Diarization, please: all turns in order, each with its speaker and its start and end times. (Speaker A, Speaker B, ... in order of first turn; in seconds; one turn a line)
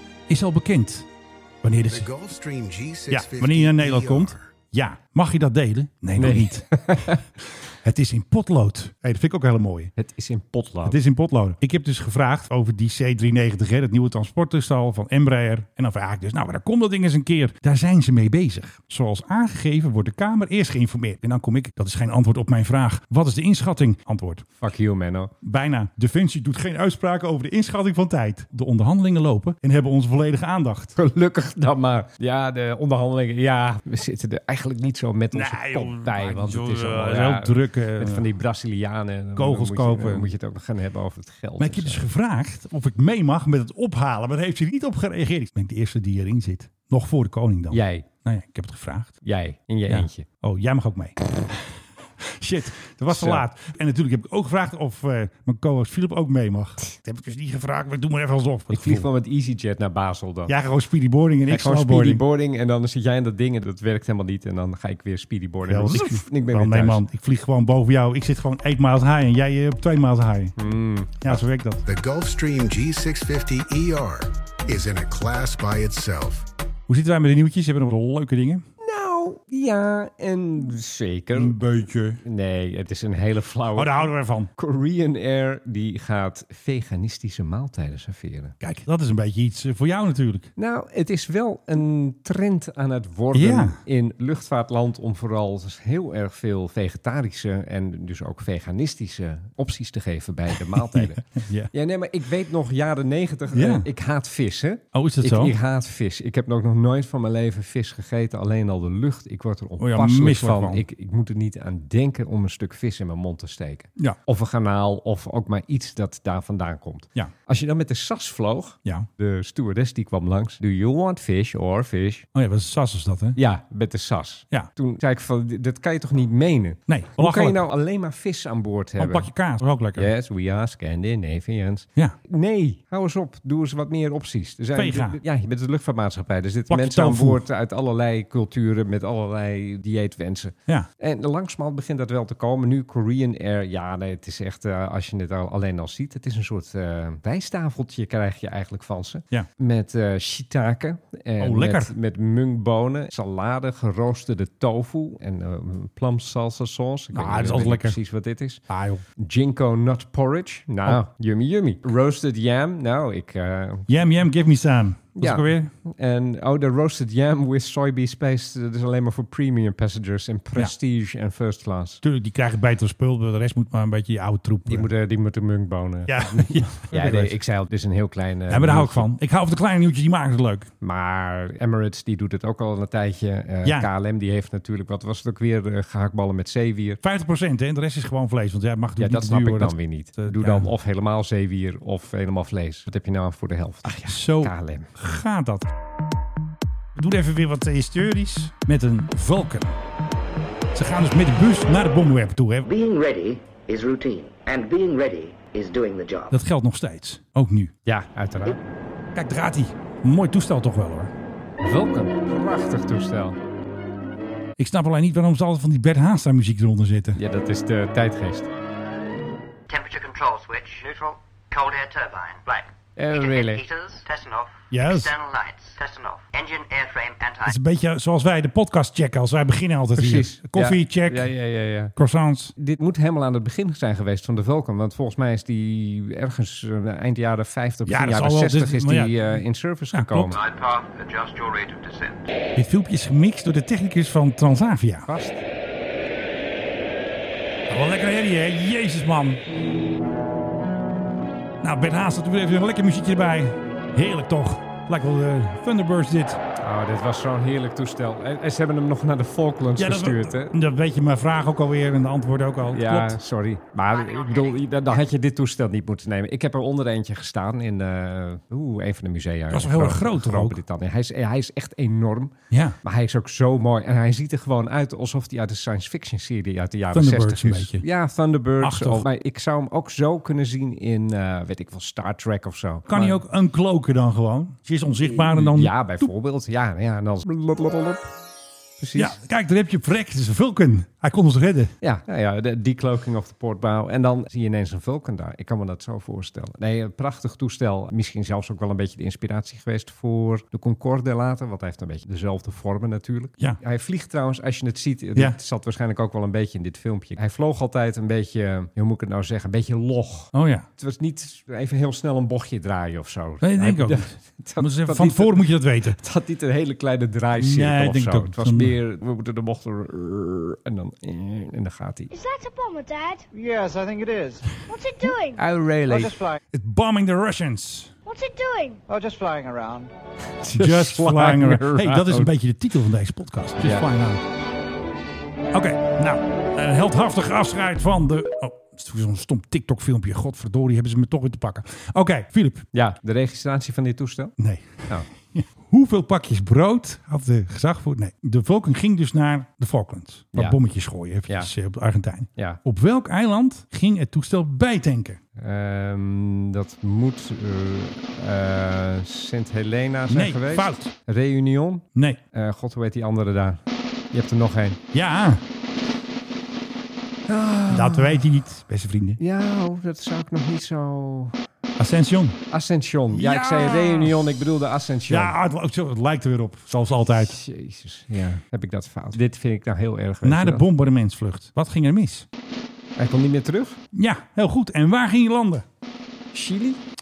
Speaker A: 0.3-1.1
Speaker A: 1.6-2.1
Speaker B: 1.9-4.5
Speaker A: 3.1-6.7
Speaker C: 6.2-7.2
Speaker A: 7.8-9.9
Speaker C: 10.0-11.0
Speaker A: 10.8-24.4
Speaker C: 24.6-25.3
Speaker A: 25.4-30.9
Speaker C: 30.9-42.1
Speaker A: 35.3-38.3
Speaker A: 39.4-40.3
Speaker A: 41.6-49.2
Speaker C: 47.7-48.1
Speaker C: 49.2-50.3
Speaker A: 49.9-51.2
Speaker A: 52.2-59.1
Speaker C: 53.1-53.5
Speaker C: 58.7-60.5
Speaker A: 60.5-62.2
Speaker C: 61.5-67.0
Speaker A: 65.7-70.6
Speaker C: 70.6-71.4
Speaker A: 71.2-71.8
Speaker B: 71.9-76.4
Speaker A: 76.9-78.6
Speaker C: 78.8-81.6
Speaker A: 81.3-82.2
Speaker C: 82.2-88.5
Speaker A: 83.7-84.5
Speaker A: 88.6-90.5
Speaker C: 90.6-122.3
Speaker A: 93.3-93.8
Speaker A: 100.5-101.7
Speaker A: 103.5-103.9
Speaker A: 104.9-105.5
Speaker A: 109.8-110.8
Speaker A: 122.3-123.4
Speaker C: 123.3-129.3
Speaker A: 126.9-127.6
Speaker A: 129.0-130.1
Speaker C: 129.9-158.6
Speaker A: 134.8-135.2
Speaker A: 136.7-137.4
Speaker A: 151.4-151.9
Speaker A: 157.1-158.0
Speaker A: 158.7-159.0
Speaker C: 159.2-163.9
Speaker A: 163.9-165.7
Speaker C: 165.2-172.0
Speaker A: 172.0-174.9
Speaker C: 174.7-179.1
Speaker A: 176.1-177.4
Speaker A: 178.5-180.7
Speaker C: 180.8-187.0
Speaker A: 183.6-183.9
Speaker A: 187.0-190.7
Speaker C: 189.0-194.9
Speaker A: 193.8-195.7
Speaker A: 197.0-199.8
Speaker A: 200.7-202.7
Speaker D: 202.6-206.4
Speaker A: 206.3-207.7
Speaker C: 207.8-208.6
Speaker A: 209.1-211.1
Speaker C: 211.6-213.4
Speaker A: 214.6-217.2
Speaker C: 217.2-218.5
Speaker D: 219.7-227.6
Speaker C: 223.0-223.6
Speaker A: 224.7-225.1
Speaker A: 227.5-231.3
Speaker C: 230.0-231.9
Speaker A: 232.0-232.5
Speaker C: 232.6-240.4
Speaker A: 237.8-239.3
Speaker A: 239.9-240.4
Speaker D: 240.3-242.3
Speaker A: 242.6-245.1
Speaker C: 245.0-245.4
Speaker A: 247.7-249.4
Speaker A: 251.6-256.4
Speaker C: 256.6-260.5
Speaker A: 259.8-263.2
Speaker C: 262.7-283.2
Speaker D: 264.0-264.6
Speaker A: 269.5-270.6
Speaker A: 272.5-272.8
Speaker A: 276.9-277.9
Speaker A: 278.6-279.0
Speaker A: 282.9-286.1
Speaker C: 285.0-288.1
Speaker C: 288.8-289.1
Speaker A: 288.9-291.7
Speaker C: 291.8-322.1
Speaker A: 310.3-310.7
Speaker A: 313.4-316.0
Speaker A: 317.4-318.8
Speaker E: 322.1-323.3
Speaker F: 323.3-324.5
Speaker E: 324.6-325.4
Speaker C: 325.0-326.1
Speaker F: 325.9-326.4
Speaker A: 326.5-327.9
Speaker E: 328.1-328.8
Speaker F: 328.9-329.9
Speaker C: 330.4-332.3
Speaker A: 330.5-334.2
Speaker C: 333.6-333.9
Speaker A: 335.5-342.7
Speaker C: 342.7-344.3
Speaker A: 344.4-355.2
Speaker C: 350.3-350.6
Speaker C: 352.4-352.6
Speaker C: 355.4-363.6
Speaker A: 360.1-360.9
Speaker A: 361.9-362.2
Speaker C: 364.1-364.8
Speaker A: 364.9-365.4
Speaker C: 367.3-368.4
Speaker A: 367.7-369.2
Speaker C: 369.2-371.4
Speaker A: 371.8-372.4
Speaker C: 372.5-375.3
Speaker A: 373.1-374.1
Speaker A: 375.1-377.4
Speaker C: 377.1-380.7
Speaker A: 380.2-382.3
Speaker C: 383.0-383.8
Speaker A: 383.9-385.6
Speaker C: 386.3-386.8